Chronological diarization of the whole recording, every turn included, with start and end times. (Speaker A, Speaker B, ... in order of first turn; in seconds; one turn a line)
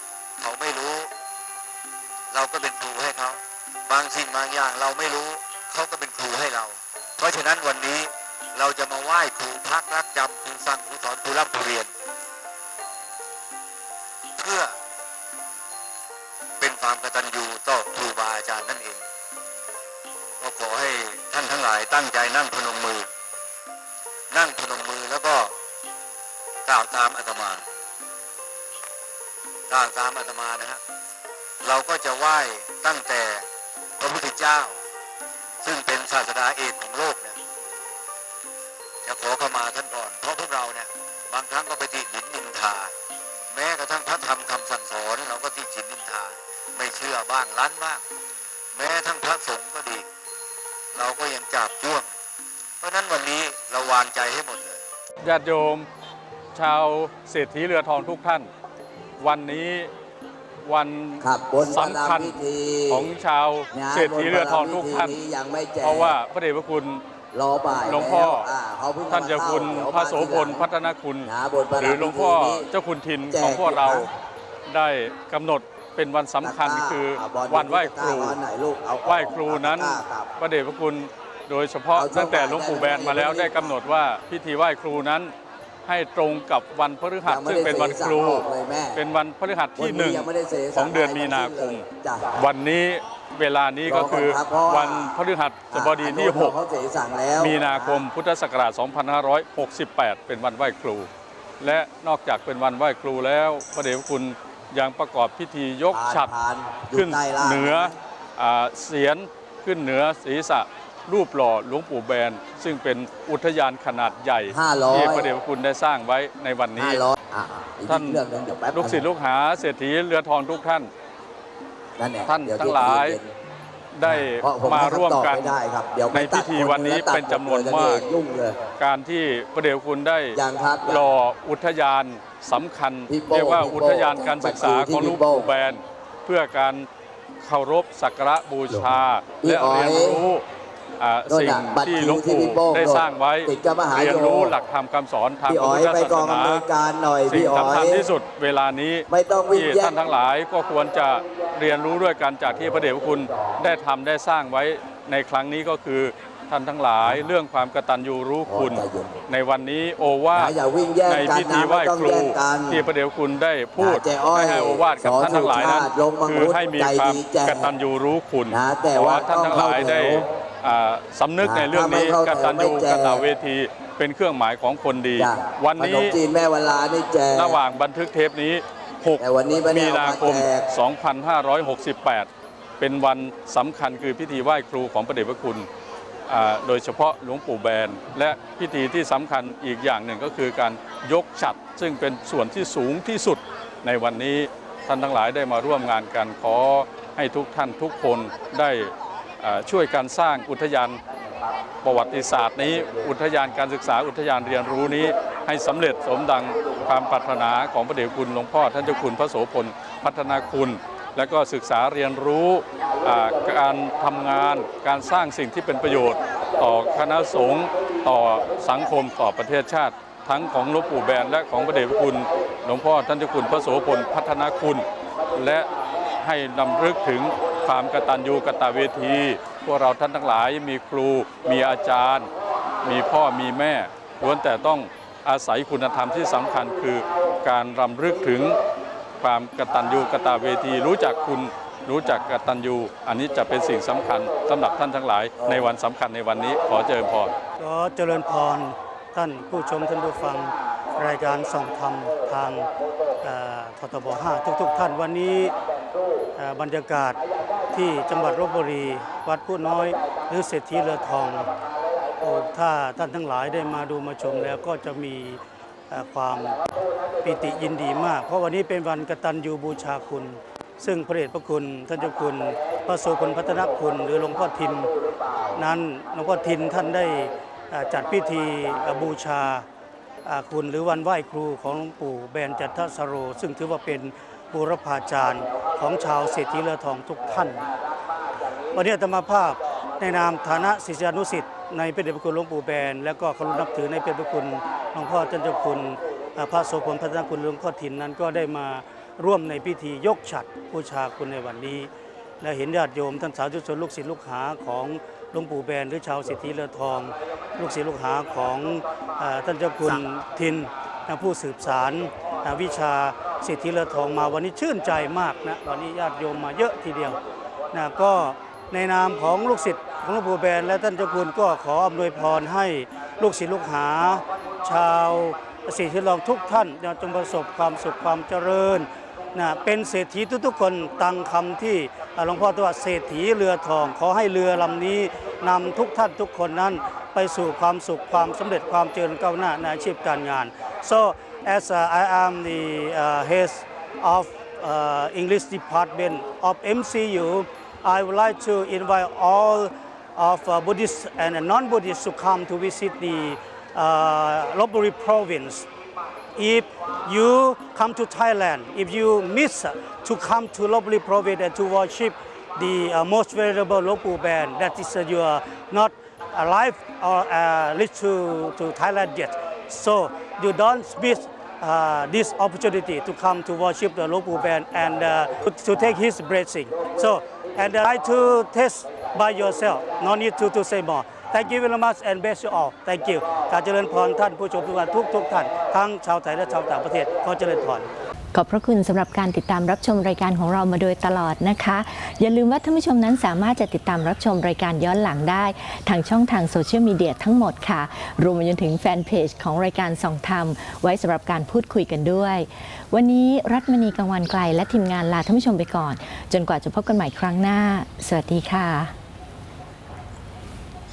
Speaker A: 0.4-1.1
Speaker A: 2.3-11.9
Speaker A: 14.4-14.8
Speaker A: 16.6-19.0
Speaker A: 20.4-23.1
Speaker A: 24.3-25.5
Speaker A: 26.6-27.6
Speaker A: 29.7-30.8
Speaker A: 31.6-33.5
Speaker A: 34.0-34.8
Speaker A: 35.6-37.4
Speaker A: 39.0-42.9
Speaker A: 43.5-48.0
Speaker A: 48.7-50.1
Speaker A: 50.9-52.1
Speaker A: 52.8-54.8
Speaker B: 55.2-55.9
Speaker B: 56.5-58.5
Speaker B: 59.2-59.9
Speaker B: 60.6-65.2
Speaker C: 61.2-63.1
Speaker C: 63.7-66.2
Speaker B: 65.8-67.0
Speaker C: 67.3-70.7
Speaker B: 67.8-68.5
Speaker B: 69.1-74.1
Speaker C: 71.2-72.7
Speaker C: 73.3-74.1
Speaker B: 74.7-78.4
Speaker C: 76.4-80.3
Speaker B: 79.0-85.3
Speaker C: 81.9-83.7
Speaker B: 85.8-96.6
Speaker C: 87.2-89.0
Speaker C: 89.8-92.3
Speaker C: 93.8-95.1
Speaker C: 95.7-98.0
Speaker B: 97.4-101.1
Speaker B: 101.6-106.3
Speaker C: 105.9-107.9
Speaker B: 106.9-117.1
Speaker C: 114.5-115.2
Speaker C: 116.8-119.0
Speaker B: 117.9-118.2
Speaker B: 118.7-120.9
Speaker C: 122.0-123.3
Speaker B: 122.2-123.2
Speaker B: 123.9-125.6
Speaker C: 124.0-128.5
Speaker B: 126.1-128.0
Speaker B: 128.8-136.9
Speaker C: 130.3-131.0
Speaker C: 133.1-135.5
Speaker B: 137.4-140.4
Speaker C: 138.7-140.2
Speaker B: 141.0-146.7
Speaker C: 141.3-144.5
Speaker C: 145.4-148.1
Speaker B: 147.2-176.2
Speaker C: 149.1-149.9
Speaker C: 158.4-159.1
Speaker C: 160.3-162.8
Speaker C: 163.8-167.7
Speaker C: 168.5-170.2
Speaker C: 171.4-173.2
Speaker C: 175.2-177.6
Speaker B: 177.3-182.3
Speaker C: 179.2-180.7
Speaker B: 182.8-185.7
Speaker B: 186.3-201.0
Speaker B: 201.8-224.8
Speaker B: 225.3-225.7
Speaker B: 226.2-232.3
Speaker B: 232.8-238.6
Speaker B: 239.2-247.3
Speaker D: 247.6-252.7
Speaker D: 253.2-255.5
Speaker D: 256.4-257.2
Speaker D: 257.7-261.5
Speaker D: 262.2-266.6
Speaker D: 267.2-274.9
Speaker D: 275.5-279.6
Speaker D: 280.2-287.7
Speaker D: 288.7-301.9
Speaker D: 302.4-317.2
Speaker D: 317.7-355.7
Speaker D: 356.4-387.9
Speaker E: 388.3-408.9